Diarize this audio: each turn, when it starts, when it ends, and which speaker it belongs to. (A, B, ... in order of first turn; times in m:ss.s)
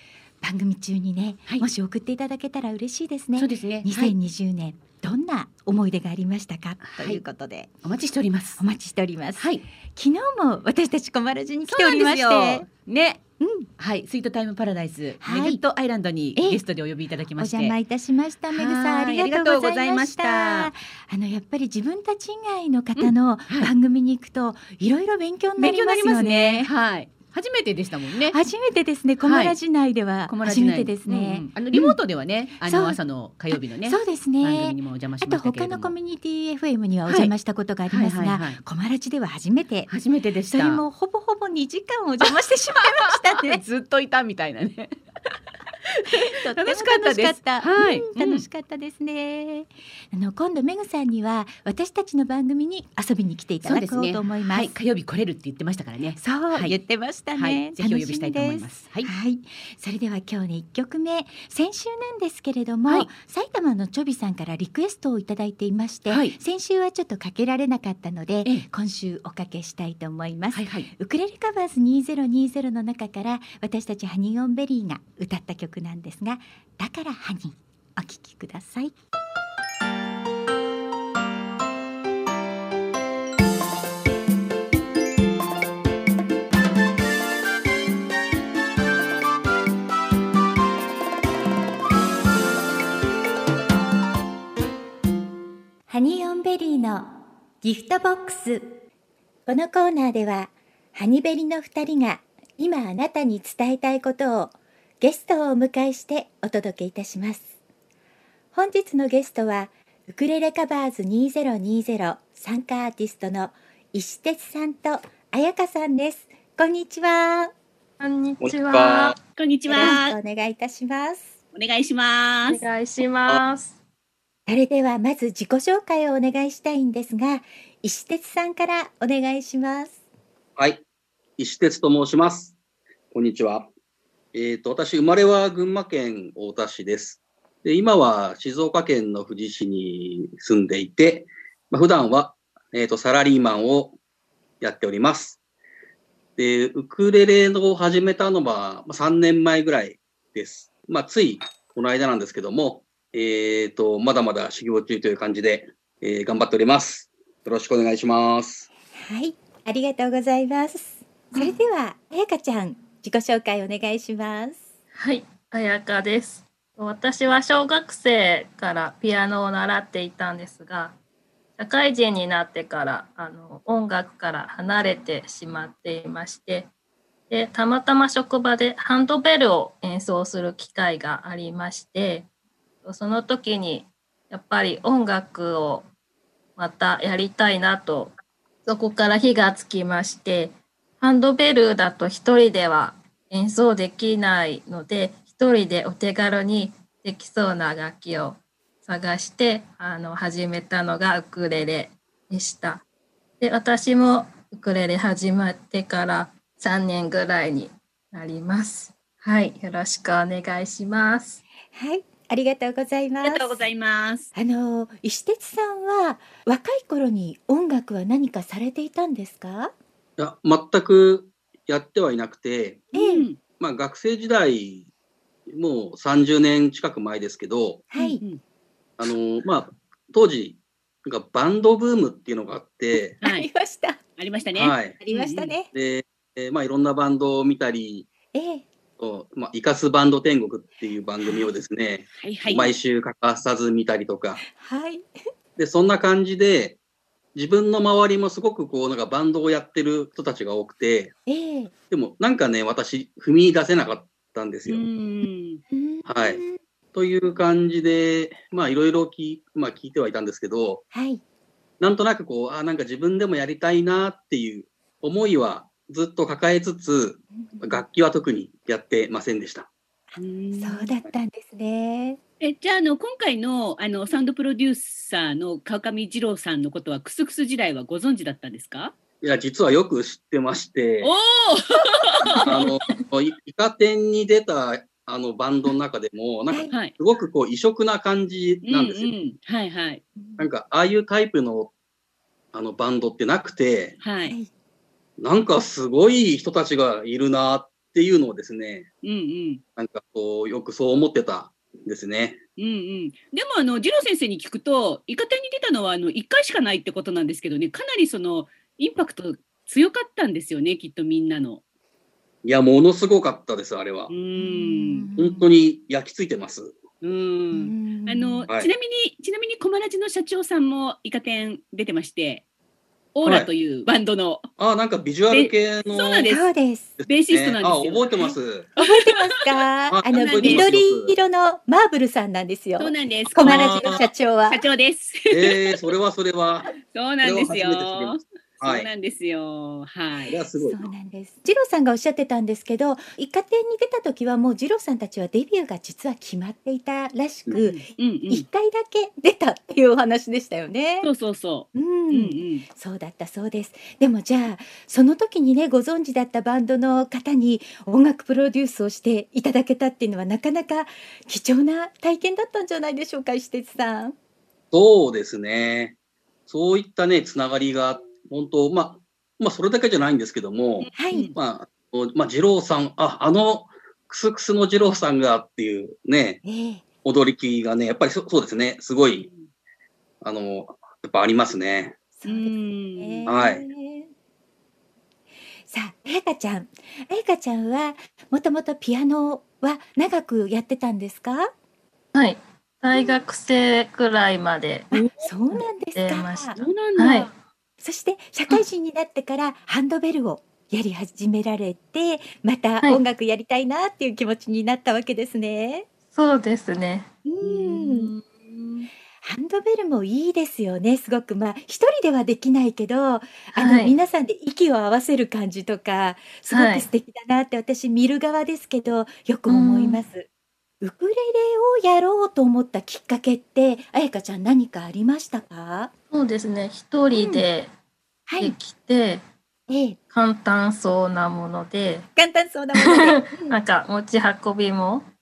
0:00.4-0:07.7 A
0:03.4-0:04.1 B
0:06.8-0:07.2 B
0:07.8-0:08.6 B
0:08.6-0:12.7 A
0:09.4-0:09.6 B
0:11.7-0:13.2 B
0:13.4-0:13.7 A
0:13.8-0:17.8 B
0:15.2-0:15.6 A
0:16.3-0:16.6 A
0:17.4-0:26.7 A
0:18.5-0:20.7 B
0:23.0-0:23.7 B
0:25.6-0:28.4 B
0:28.3-0:32.0 A
0:29.2-0:29.6 B
0:30.3-0:35.9 B
0:32.6-0:33.0 A
0:33.5-0:39.9 A
0:37.1-0:37.3 B
0:37.9-0:38.6 B
0:39.9-0:40.8 B
0:40.5-0:43.6 A
0:42.2-0:45.0 B
0:45.9-0:48.5 B
0:46.1-0:54.7 A
0:53.6-0:59.1 B
0:56.2-1:18.9 A
1:06.1-1:06.4 B
1:10.5-1:10.9 B
1:35.9-1:38.8 A
1:39.5-1:47.5 A
1:48.5-1:57.5 A
1:58.0-1:59.2 C
1:58.4-1:59.2 D
1:59.4-2:00.2 E
1:59.7-2:01.3 A
2:01.5-2:02.6 E
2:02.5-2:03.8 C
2:04.5-2:10.0 A
2:10.6-2:10.8 D
2:11.4-2:12.5 D
2:13.1-2:13.7 D
2:14.3-2:24.0 D
2:24.6-2:25.4 D
2:26.4-2:38.7 D
2:38.9-2:44.6 A
2:45.0-2:51.0 C
2:51.6-2:56.7 C
2:57.3-3:02.3 C
3:02.8-3:05.9 C
3:06.6-3:22.8 C
3:23.4-3:31.4 C
3:31.7-3:33.6 A
3:33.2-3:34.3 E
3:34.3-3:39.7 A
3:40.2-3:42.8 D
3:42.9-3:43.3 A
3:42.9-3:43.4 E
3:43.6-3:44.9 D
3:45.5-3:47.8 D
3:47.9-3:48.2 A
3:48.0-3:48.4 E
3:49.0-3:53.2 D
3:53.2-3:53.5 E
3:53.2-3:54.0 A
3:54.2-3:55.5 E
3:54.5-3:55.0 D
3:55.0-3:55.7 A
3:55.7-3:58.1 D
3:58.3-3:58.6 A
3:59.0-4:04.4 D
4:01.2-4:01.5 A
4:02.2-4:02.7 E
4:04.4-4:05.1 A
4:05.6-4:06.8 D
4:07.3-4:11.1 D
4:11.2-4:11.7 A
4:11.9-4:14.8 D
4:14.7-4:15.6 E
4:15.7-4:16.6 A
4:16.0-4:16.4 D
4:16.9-4:20.8 D
4:20.9-4:21.2 A
4:21.8-4:29.7 D
4:30.2-4:30.9 E
4:30.6-4:32.2 A
4:32.4-4:38.9 E
4:39.2-4:41.1 D
4:41.0-4:42.6 E
4:42.4-4:49.1 D
4:48.6-4:50.0 E
4:50.2-4:50.4 A
4:50.4-4:51.7 D
4:52.5-4:54.0 D
4:54.0-4:54.4 E
4:55.2-4:58.9 D
4:59.0-4:59.6 E
4:59.8-5:02.4 D
5:02.6-5:11.6 E
5:12.4-5:14.1 D
5:14.1-5:15.1 E
5:14.3-5:15.5 A
5:15.2-5:16.8 D
5:17.0-5:22.4 E
5:17.5-5:18.5 A
5:23.1-5:24.5 E
5:23.2-5:23.5 D
5:24.6-5:26.3 D
5:25.3-5:26.4 E
5:26.3-5:26.9 A
5:27.0-5:28.7 D
5:27.1-5:28.1 E
5:28.2-5:34.6 A
5:28.8-5:29.6 E
5:29.9-5:31.1 D
5:30.1-5:30.7 E
5:32.8-5:35.9 E
5:33.4-5:34.0 D
5:35.3-5:36.7 D
5:36.8-5:40.4 E
5:37.2-5:38.9 D
5:40.3-5:40.9 D
5:40.6-5:51.1 A
5:47.6-5:48.4 E
5:51.0-5:52.6 E
5:51.7-6:04.2 A
6:04.7-6:05.9 D
6:06.5-6:16.4 D
6:10.8-6:11.4 E
6:11.0-6:11.3 A
6:16.4-6:16.8 A
6:17.0-6:19.3 D
6:19.2-6:19.5 E
6:20.2-6:21.9 D
6:22.2-6:24.1 A
6:22.2-6:23.3 E
6:23.3-6:23.6 D
6:25.7-6:31.5 A
6:32.1-6:34.9 C
6:32.9-6:33.2 A
6:34.9-6:36.6 A
6:35.5-6:37.3 C
6:36.6-6:37.3 E
6:37.8-6:45.9 A
6:46.1-6:47.1 C
6:47.2-6:48.1 A
6:47.4-6:48.9 E
6:49.2-7:00.3 A
6:53.5-6:53.9 C
6:56.5-6:56.9 C
6:59.5-7:00.0 C
7:00.8-7:05.9 A
7:06.1-7:07.7 C
7:07.1-7:07.4 A
7:08.3-7:08.5 A
7:08.4-7:09.2 C
7:09.7-7:10.0 A
7:10.1-7:12.1 C
7:12.2-7:13.6 A
7:12.7-7:15.0 C